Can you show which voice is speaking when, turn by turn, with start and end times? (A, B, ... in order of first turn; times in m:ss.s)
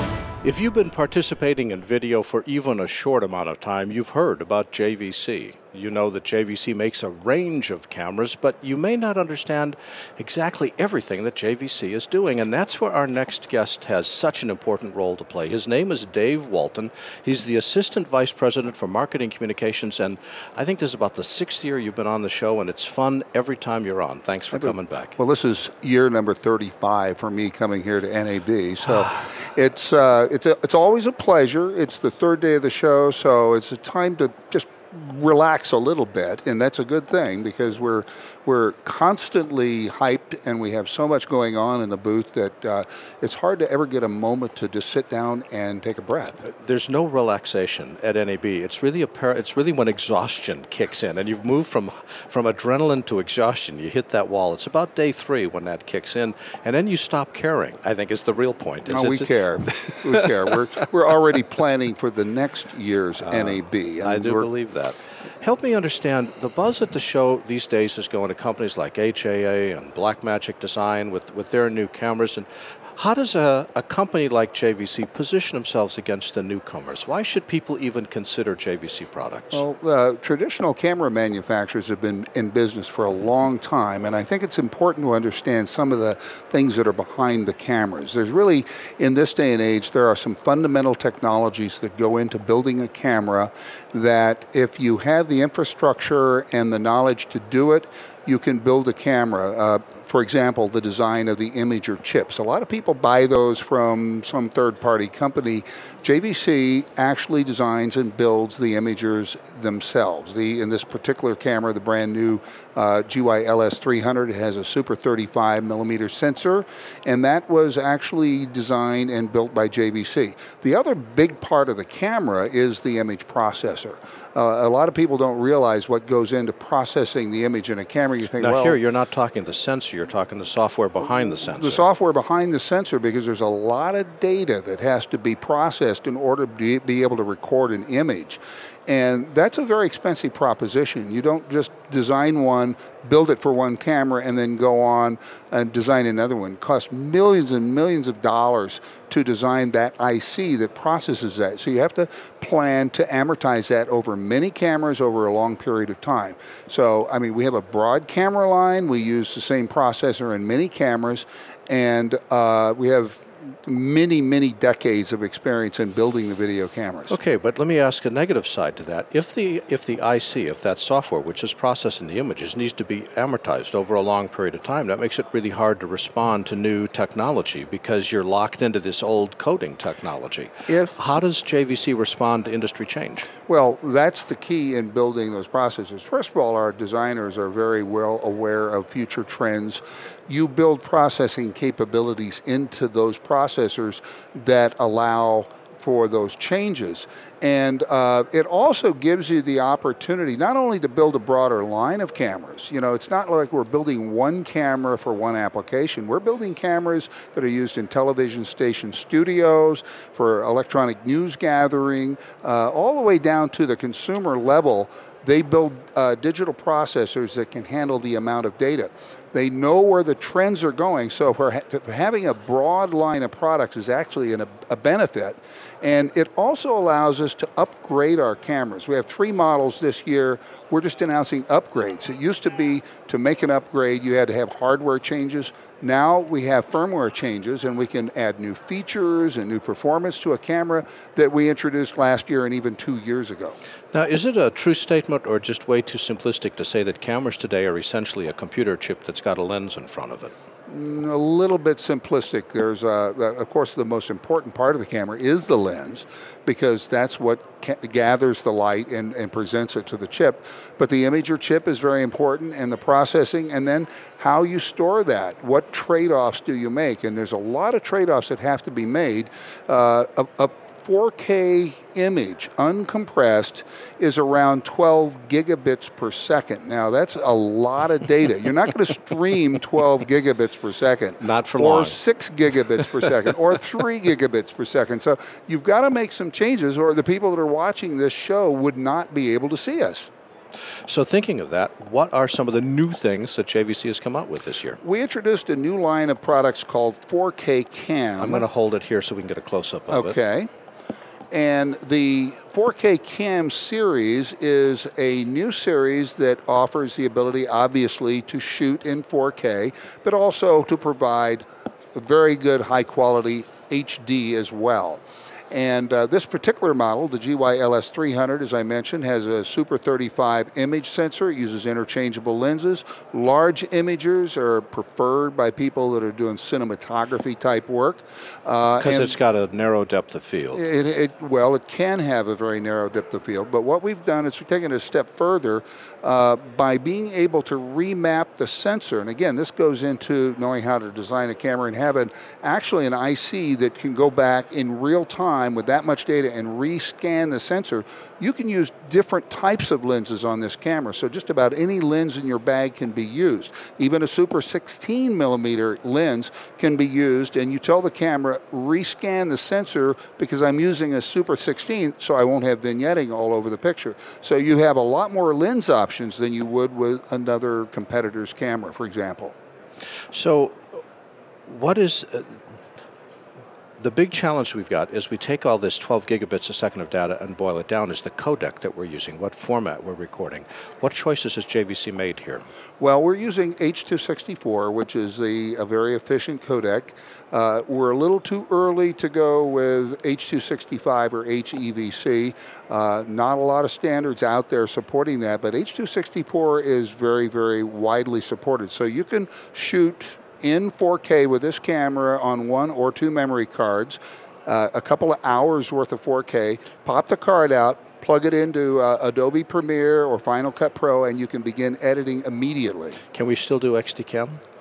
0:00.4-0:25.2 A
0:24.5-0:46.4 B
0:46.4-1:00.5 A
0:58.9-1:04.5 B
1:03.2-1:19.6 A
1:19.5-2:08.8 B
2:08.4-2:11.8 A
2:11.2-2:47.2 B
2:47.1-3:03.3 A
3:00.7-3:01.0 B
3:03.5-4:03.6 B
4:03.9-4:10.3 A
4:10.7-4:50.1 B
4:41.2-4:42.0 A
4:50.8-4:54.8 A
4:54.8-4:58.4 B
4:58.2-5:00.2 A
4:59.9-5:00.5 B
5:01.3-5:29.2 B
5:28.8-5:30.6 A
5:30.5-6:09.3 B
6:10.1-6:10.6 A
6:11.5-6:12.4 A
6:13.8-6:22.4 A
6:22.8-6:53.0 B
6:53.1-6:54.4 A